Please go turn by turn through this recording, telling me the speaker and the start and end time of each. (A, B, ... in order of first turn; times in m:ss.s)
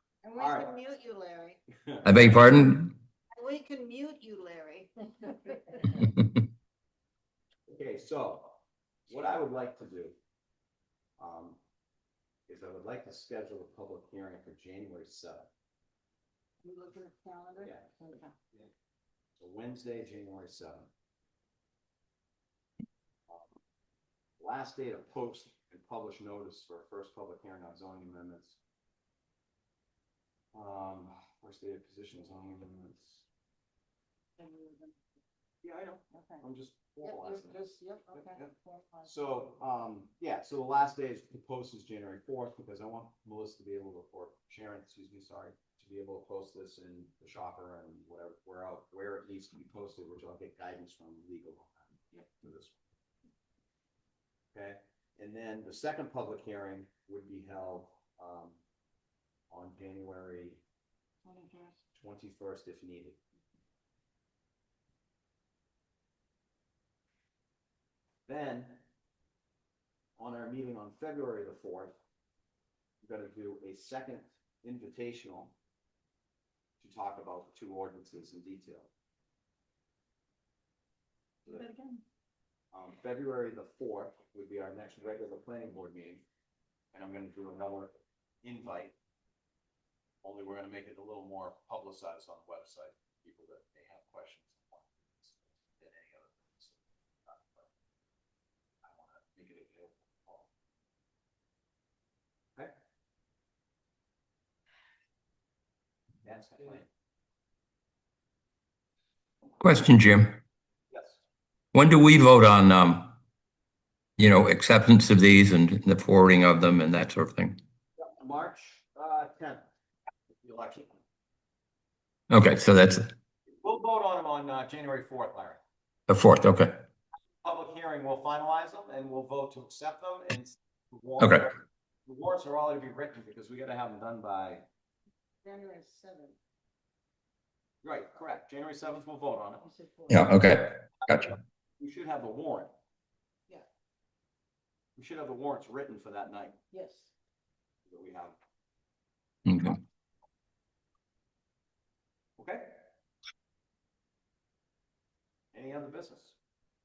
0:00.2-0:01.6 A
0:00.4-0:00.8 B
0:01.9-0:02.5 B
0:02.0-0:02.9 C
0:03.4-0:05.9 A
0:07.7-0:10.2 B
0:11.2-0:11.6 B
0:12.5-0:15.5 B
0:16.6-0:18.4 A
0:17.6-0:17.9 B
0:19.4-0:20.9 B
0:23.3-0:23.6 B
0:24.4-0:28.6 B
0:30.5-0:33.3 B
0:34.4-0:35.0 A
0:35.6-0:37.6 B
0:36.1-0:36.5 A
0:37.0-0:39.2 A
0:38.1-0:38.5 B
0:39.0-0:52.8 B
0:54.5-0:58.6 B
0:59.5-1:00.6 B
1:01.2-1:01.8 A
1:01.9-1:03.2 B
1:08.3-1:08.8 B
1:10.2-1:12.0 B
1:13.0-1:15.6 B
1:16.8-1:18.9 B
1:21.5-1:22.0 A
1:22.7-1:26.2 B
1:26.9-1:29.0 B
1:30.2-1:37.7 B
1:38.8-1:40.5 B
1:46.2-1:46.9 B
1:49.6-1:50.4 C
1:50.9-1:51.2 B
1:51.7-1:53.2 C
1:54.2-1:57.6 C
1:58.0-1:59.6 B
2:00.4-2:01.0 B
2:02.3-2:03.1 C
2:03.5-2:05.6 B
2:06.1-2:06.8 C
2:07.4-2:14.6 B
2:11.2-2:11.5 C
2:15.4-2:16.4 A
2:17.8-2:19.6 B
2:19.6-2:20.5 A
2:20.1-2:21.3 C
2:21.1-2:22.7 B
2:25.0-2:26.6 B
2:26.7-2:27.1 A
2:27.9-2:28.4 B
2:29.5-2:29.8 C
2:32.4-2:32.8 B
2:35.5-2:36.4 B